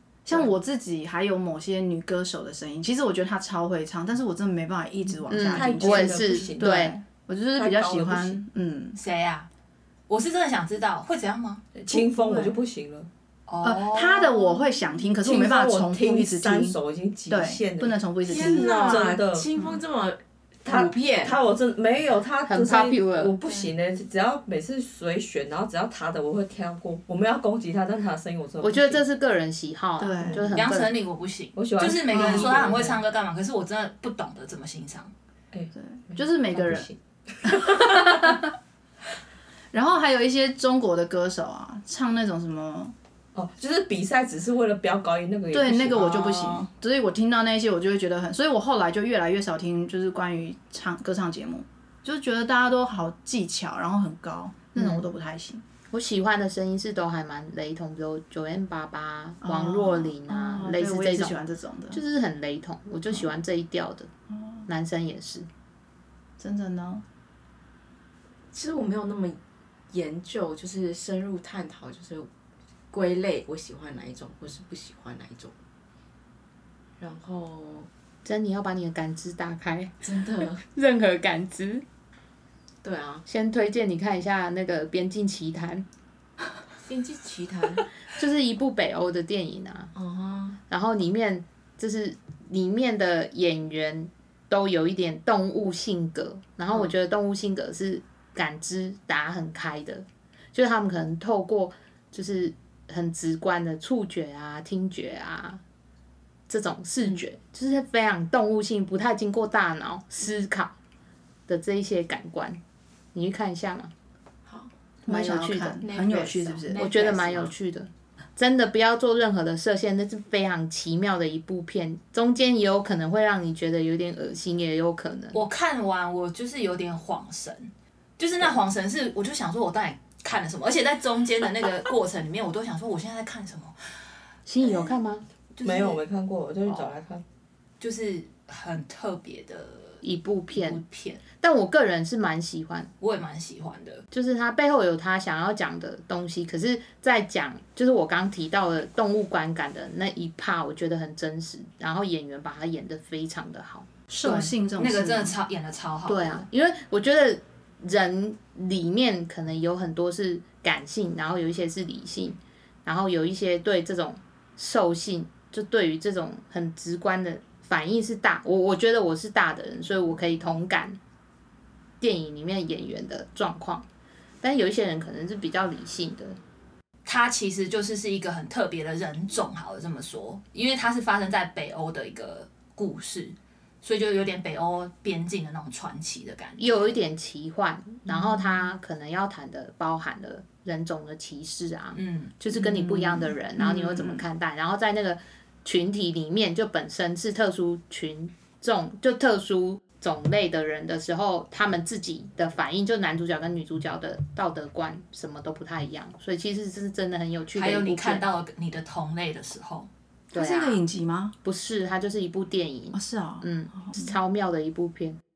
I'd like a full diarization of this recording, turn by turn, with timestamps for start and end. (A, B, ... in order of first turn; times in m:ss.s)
0:00.2-0:09.0 A
0:05.3-0:07.0 B
0:05.5-0:06.9 C
0:07.6-0:08.4 C
0:08.9-0:09.5 D
0:10.1-0:11.7 D
0:11.8-0:13.1 C
0:11.9-0:12.6 A
0:13.5-0:14.5 D
0:13.6-0:16.8 A
0:15.2-0:19.5 C
0:17.3-0:19.0 A
0:18.2-0:21.4 E
0:20.6-0:29.0 C
0:22.5-0:23.3 B
0:28.6-0:31.0 B
0:30.0-0:30.6 A
0:30.5-0:35.1 D
0:31.6-0:33.0 C
0:32.1-0:32.7 A
0:35.5-0:38.5 C
0:35.7-0:36.9 A
0:37.4-0:38.5 A
0:39.7-0:42.9 A
0:43.3-0:46.5 C
0:45.5-0:55.6 A
0:46.1-0:46.5 D
0:54.8-0:55.0 B
0:55.9-1:01.3 B
0:59.4-1:02.0 A
1:01.9-1:04.1 B
1:04.3-1:04.6 A
1:04.7-1:05.5 B
1:06.4-1:07.0 A
1:08.5-1:09.4 E
1:09.9-1:12.3 E
1:12.9-1:15.5 E
1:17.0-1:17.9 E
1:18.2-1:19.9 B
1:20.0-1:20.6 E
1:20.5-1:21.8 B
1:22.8-1:23.2 E
1:23.2-1:25.8 B
1:26.8-1:27.8 E
1:28.1-1:29.9 B
1:29.9-1:30.6 E
1:30.7-1:45.6 B
1:46.5-1:50.7 B
1:51.5-1:52.6 B
1:53.1-1:53.9 B
1:54.4-1:54.7 E
1:55.0-1:55.8 B
1:55.1-1:56.9 A
1:55.8-1:57.5 E
1:56.7-2:05.4 B
2:05.3-2:13.8 D
2:14.4-2:15.2 B
2:15.5-2:16.0 D
2:15.6-2:17.2 C
2:17.8-2:21.2 D
2:20.0-2:22.9 B
2:23.0-2:24.0 D
2:24.1-2:34.5 B
2:34.1-2:35.4 A
2:34.8-2:36.4 D
2:36.0-2:51.0 B
2:52.0-2:53.8 B
2:54.4-2:56.4 B
2:57.0-3:06.9 D
3:06.6-3:28.2 B
3:08.1-3:08.7 D
3:11.9-3:13.2 D
3:13.6-3:14.2 A
3:27.5-3:29.9 D
3:30.3-3:31.3 A
3:30.3-3:30.8 B
3:31.4-3:35.2 B
3:32.9-3:34.1 A